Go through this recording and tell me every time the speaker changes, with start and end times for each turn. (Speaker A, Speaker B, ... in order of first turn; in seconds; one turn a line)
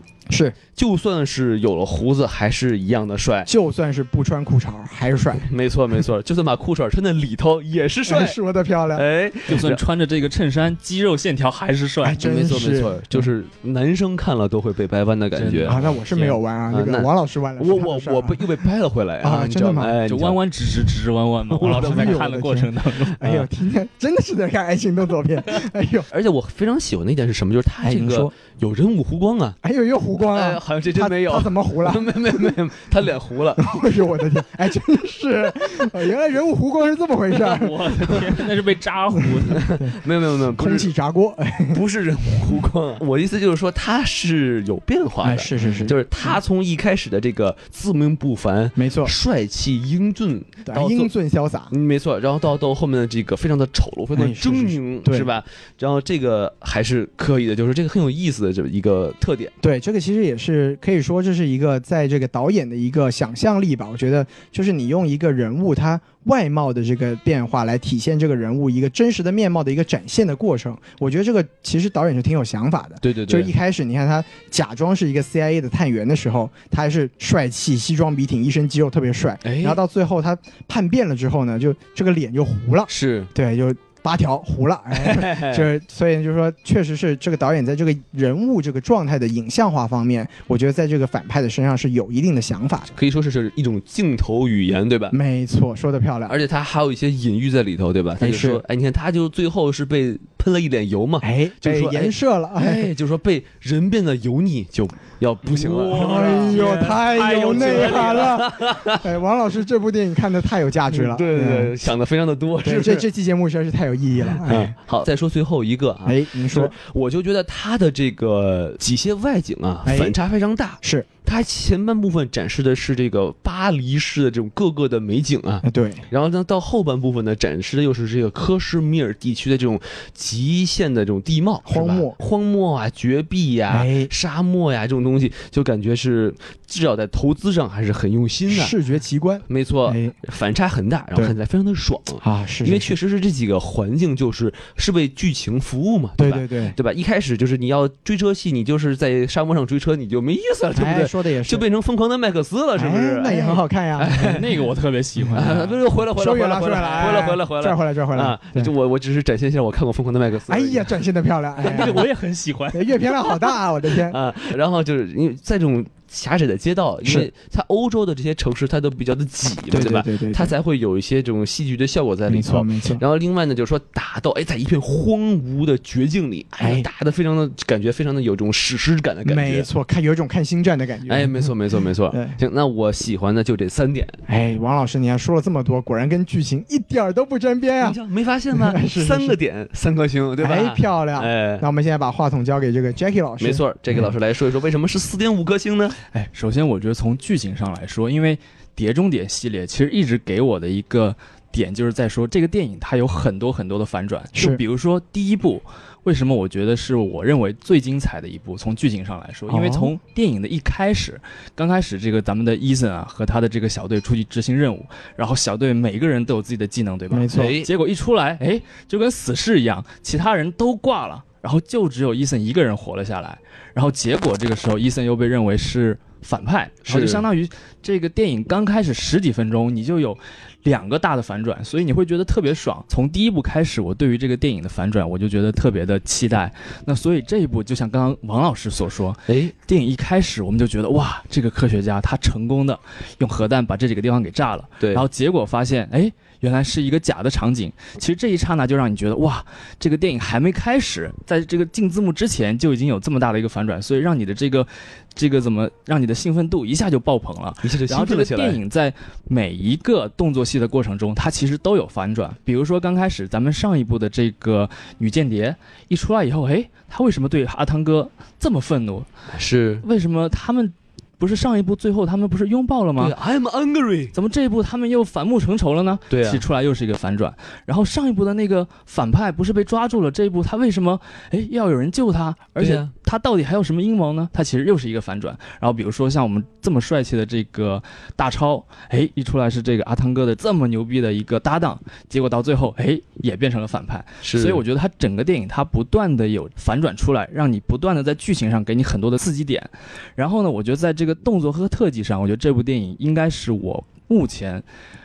Speaker A: 0.3-0.6
Speaker B: 0.8-3.5
Speaker A: 3.5-5.5
Speaker B: 5.5-8.4
Speaker A: 8.1-9.0
Speaker B: 8.9-9.8
Speaker C: 9.5-12.2
Speaker A: 12.0-13.3
Speaker B: 12.2-20.4
Speaker C: 15.3-16.0
Speaker A: 15.7-18.6
Speaker A: 19.2-20.0
Speaker C: 20.1-23.2
Speaker A: 21.5-26.1
Speaker B: 21.6-22.2
Speaker B: 23.2-23.5
Speaker B: 26.1-29.6
Speaker A: 27.8-28.3
Speaker A: 29.6-32.5
Speaker B: 30.2-33.9
Speaker A: 33.6-38.2
Speaker C: 37.4-39.7
Speaker A: 39.2-41.8
Speaker B: 39.5-40.9
Speaker B: 41.7-51.1
Speaker A: 45.2-46.4
Speaker A: 48.8-49.1
Speaker A: 50.7-51.7
Speaker B: 51.7-59.5
Speaker A: 54.1-55.3
Speaker A: 59.6-92.9
Speaker B: 73.0-73.5
Speaker B: 79.4-79.8
Speaker B: 82.9-83.3
Speaker B: 84.9-85.7
Speaker B: 92.9-95.2
Speaker A: 95.1-96.4
Speaker B: 96.3-109.1
Speaker A: 98.2-98.6
Speaker A: 101.2-102.9
Speaker C: 105.5-108.3
Speaker A: 105.9-111.7
Speaker B: 110.9-113.1
Speaker A: 112.6-114.7
Speaker B: 114.4-138.8
Speaker A: 116.0-116.7
Speaker A: 119.8-120.2
Speaker A: 120.8-121.1
Speaker A: 125.6-126.0
Speaker A: 131.7-132.1
Speaker A: 133.7-134.1
Speaker A: 138.5-140.1
Speaker B: 139.5-154.6
Speaker A: 142.2-142.9
Speaker A: 146.2-146.8
Speaker A: 150.8-151.7
Speaker A: 152.8-154.4
Speaker C: 154.0-155.8
Speaker A: 155.2-155.5
Speaker B: 155.3-161.0
Speaker A: 156.1-158.7
Speaker A: 160.5-162.1
Speaker B: 161.6-162.1
Speaker C: 161.6-163.1
Speaker A: 162.7-164.2
Speaker B: 163.3-179.7
Speaker A: 169.7-170.5
Speaker A: 172.3-173.0
Speaker A: 176.6-176.9
Speaker A: 179.2-182.4
Speaker B: 181.1-184.2
Speaker A: 184.3-188.0
Speaker B: 187.8-191.6
Speaker A: 188.5-189.4
Speaker A: 190.4-194.1
Speaker B: 193.4-196.0
Speaker C: 196.1-269.1
Speaker A: 204.3-204.6
Speaker A: 209.5-209.9
Speaker A: 217.1-217.6
Speaker B: 217.3-217.7
Speaker B: 226.8-227.2
Speaker B: 239.3-239.5
Speaker B: 244.8-245.1
Speaker B: 257.6-258.6
Speaker B: 269.3-269.8
Speaker C: 269.8-273.1
Speaker B: 273.0-274.1
Speaker C: 274.1-304.6
Speaker B: 276.1-276.4
Speaker B: 282.6-282.9
Speaker B: 294.2-294.6